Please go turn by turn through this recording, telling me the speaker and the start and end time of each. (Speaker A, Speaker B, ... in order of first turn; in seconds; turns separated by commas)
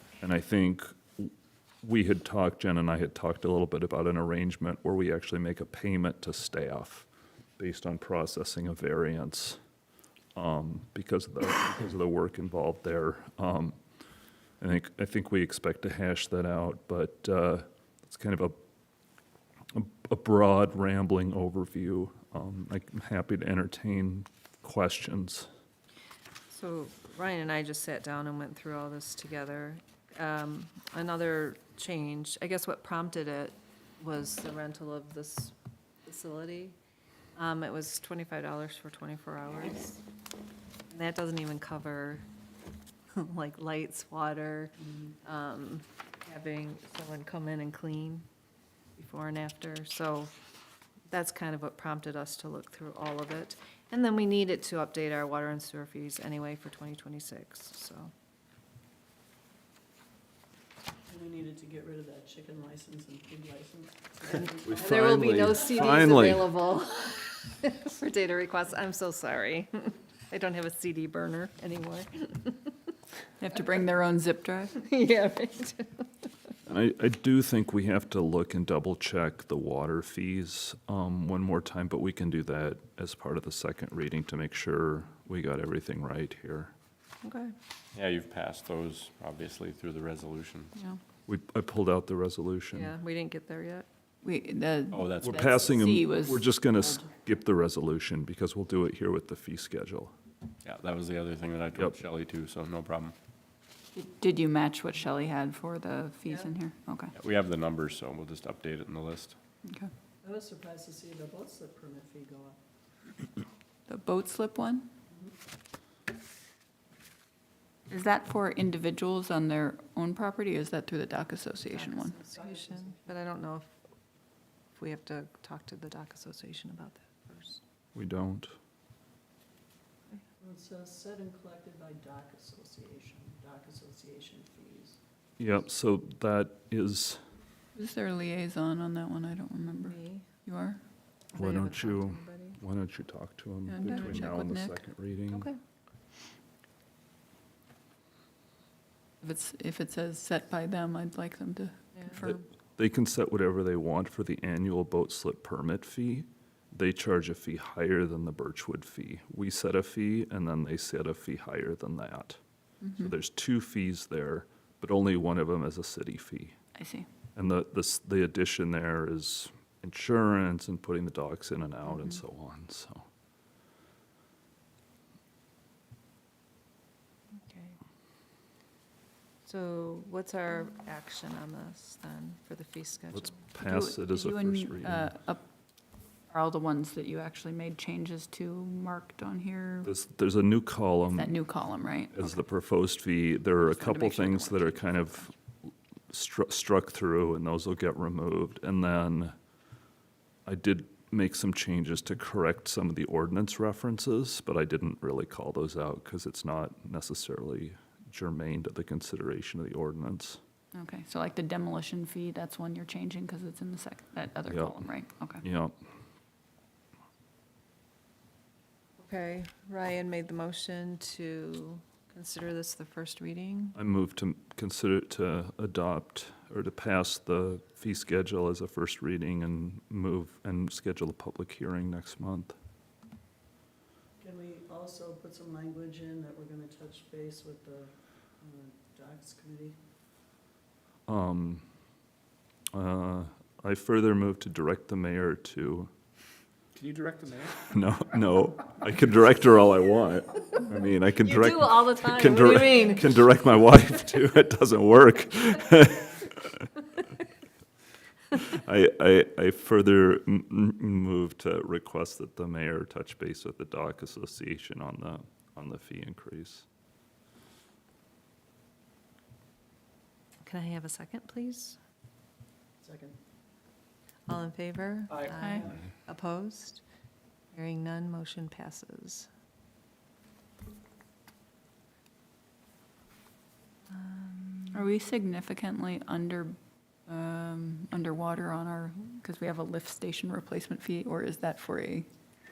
Speaker A: 0.2-1.3, Speaker A: 1.8-9.6, Speaker A: 10.3-13.8, Speaker A: 14.6-18.6, Speaker A: 19.7-25.5, Speaker B: 26.5-35.5, Speaker B: 36.1-36.8, Speaker B: 37.4-40.0, Speaker B: 40.9-42.3, Speaker B: 43.1-48.3, Speaker B: 49.0-50.3, Speaker B: 51.1-58.1, Speaker C: 61.1-65.0, Speaker B: 64.3-72.9, Speaker A: 64.7-66.5, Speaker D: 73.4-74.8, Speaker B: 74.8-76.1, Speaker A: 76.7-86.7, Speaker B: 87.2-87.5, Speaker E: 88.0-90.7, Speaker A: 91.3-92.9, Speaker B: 92.7-93.9, Speaker D: 94.2-96.5, Speaker E: 94.9-95.3, Speaker A: 95.2-100.1, Speaker E: 100.6-103.2, Speaker D: 104.0-107.1, Speaker E: 107.1-109.4, Speaker D: 109.7-109.9, Speaker C: 110.2-112.6, Speaker D: 113.9-114.9, Speaker D: 117.9-122.2, Speaker B: 121.8-123.7, Speaker C: 122.2-123.1, Speaker B: 124.8-127.6, Speaker A: 128.0-128.5, Speaker C: 130.4-135.0, Speaker A: 135.4-137.2, Speaker D: 137.8-140.8, Speaker B: 139.6-140.3, Speaker B: 141.3-142.6, Speaker A: 141.3-145.5, Speaker D: 143.7-144.8, Speaker B: 143.8-144.3, Speaker B: 145.3-145.6, Speaker D: 149.2-152.4, Speaker B: 151.9-152.2, Speaker A: 152.2-162.4, Speaker D: 162.8-163.1, Speaker A: 163.0-166.6, Speaker D: 166.8-167.1, Speaker A: 167.3-173.1, Speaker B: 177.4-177.8, Speaker B: 179.4-183.5, Speaker A: 183.1-185.1, Speaker D: 183.6-185.4, Speaker D: 186.3-189.9, Speaker A: 189.8-191.3, Speaker D: 191.1-192.3, Speaker A: 192.1-195.3, Speaker D: 193.6-195.3, Speaker A: 196.1-199.3, Speaker A: 200.5-210.4, Speaker D: 210.7-215.4, Speaker A: 214.5-215.8, Speaker B: 219.0-223.8, Speaker A: 223.8-232.6, Speaker C: 234.2-239.8, Speaker A: 241.1-241.7, Speaker A: 242.7-245.9, Speaker E: 246.8-247.5, Speaker A: 247.7-256.7, Speaker B: 251.2-253.4, Speaker A: 258.4-266.7, Speaker B: 270.4-271.8, Speaker C: 272.8-273.2, Speaker B: 274.3-276.8, Speaker C: 275.1-275.8, Speaker D: 275.4-275.7, Speaker B: 277.5-279.3, Speaker B: 283.9-284.9, Speaker D: 284.7-292.1